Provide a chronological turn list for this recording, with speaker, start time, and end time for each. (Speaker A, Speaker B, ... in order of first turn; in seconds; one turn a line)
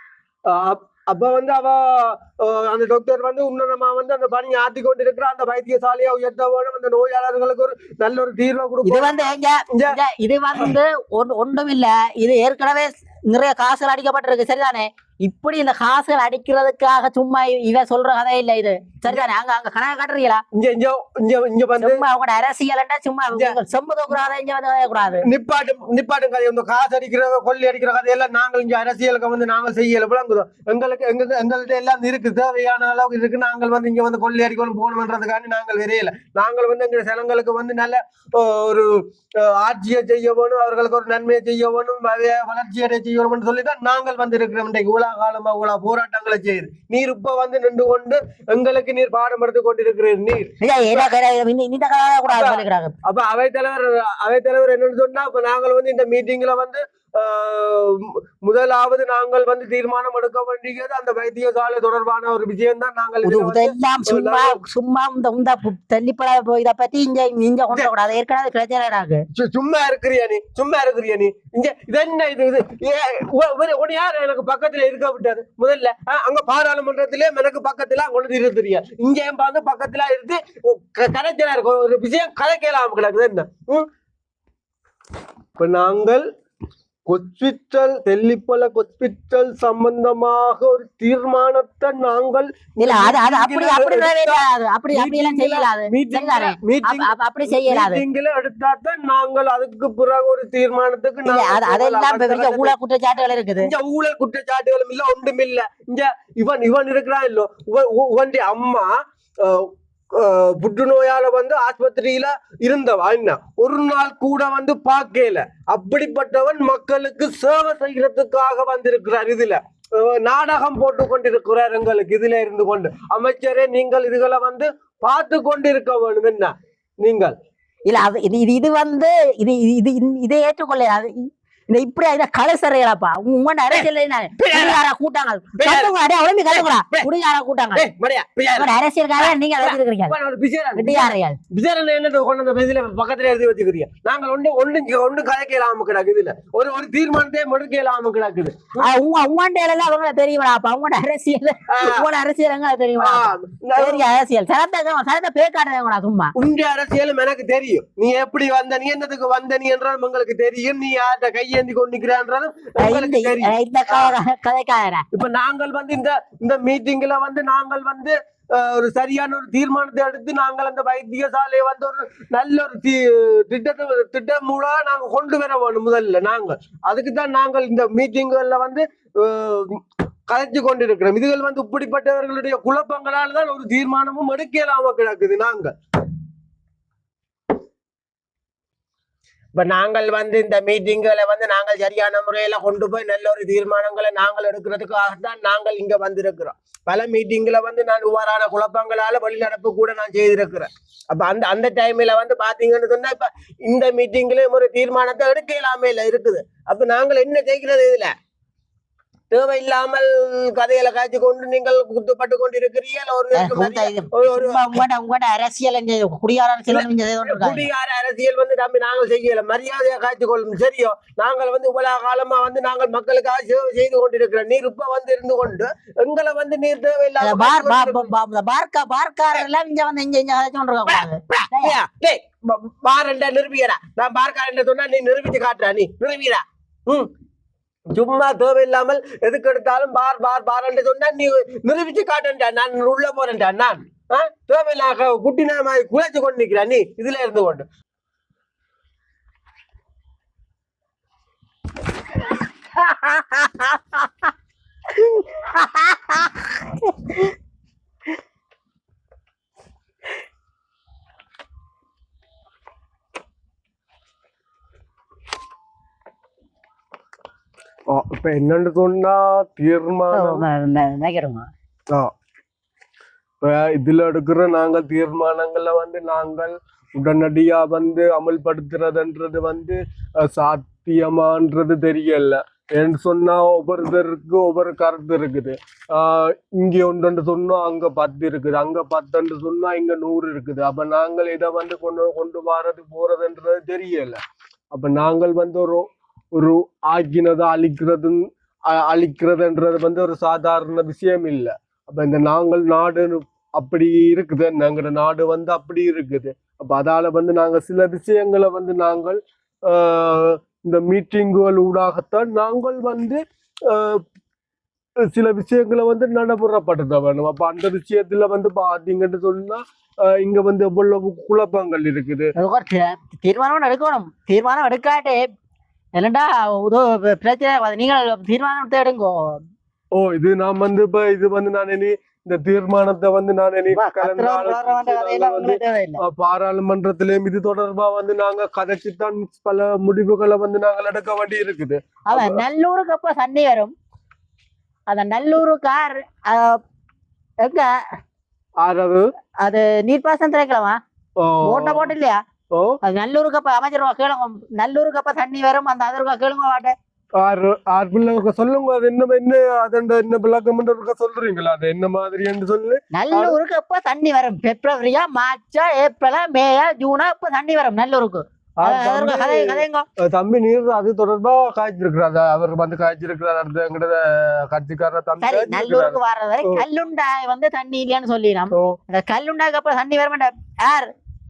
Speaker A: 0.5-9.2
Speaker B: 8.8-20.4
Speaker A: 9.7-10.0
Speaker A: 20.5-22.0
Speaker B: 21.8-25.2
Speaker A: 23.3-23.6
Speaker A: 25.2-51.1
Speaker B: 50.6-52.9
Speaker A: 52.3-64.6
Speaker B: 63.2-69.2
Speaker A: 69.3-83.9
Speaker A: 85.6-86.2
Speaker A: 87.1-102.8
Speaker B: 92.8-98.0
Speaker B: 101.2-103.7
Speaker A: 103.6-127.3
Speaker B: 127.9-137.9
Speaker A: 134.4-134.8
Speaker A: 135.6-135.9
Speaker A: 136.5-137.1
Speaker A: 137.8-148.9
Speaker B: 138.6-140.2
Speaker B: 140.8-141.4
Speaker B: 148.8-156.3
Speaker A: 151.7-152.1
Speaker A: 153.0-154.1
Speaker A: 156.4-164.2
Speaker B: 162.8-165.1
Speaker A: 165.1-185.7
Speaker A: 189.6-208.1
Speaker A: 209.3-214.8
Speaker B: 213.3-217.7
Speaker A: 216.7-228.1
Speaker B: 227.2-231.8
Speaker A: 230.9-237.1
Speaker A: 237.9-247.7
Speaker B: 252.9-253.7
Speaker B: 255.4-256.2
Speaker A: 267.9-270.4
Speaker B: 270.1-271.5
Speaker A: 273.4-294.2
Speaker A: 294.7-314.0
Speaker A: 315.1-322.3
Speaker B: 322.4-325.2
Speaker B: 325.9-329.4
Speaker A: 329.9-342.4
Speaker B: 333.7-336.0
Speaker B: 342.1-343.7
Speaker B: 344.9-346.6
Speaker B: 347.4-347.7
Speaker A: 348.6-349.1
Speaker B: 349.4-350.8
Speaker A: 351.2-351.9
Speaker B: 351.4-352.2
Speaker B: 352.8-356.8
Speaker A: 357.2-363.4
Speaker B: 362.9-369.9
Speaker A: 368.6-376.6
Speaker B: 375.2-380.9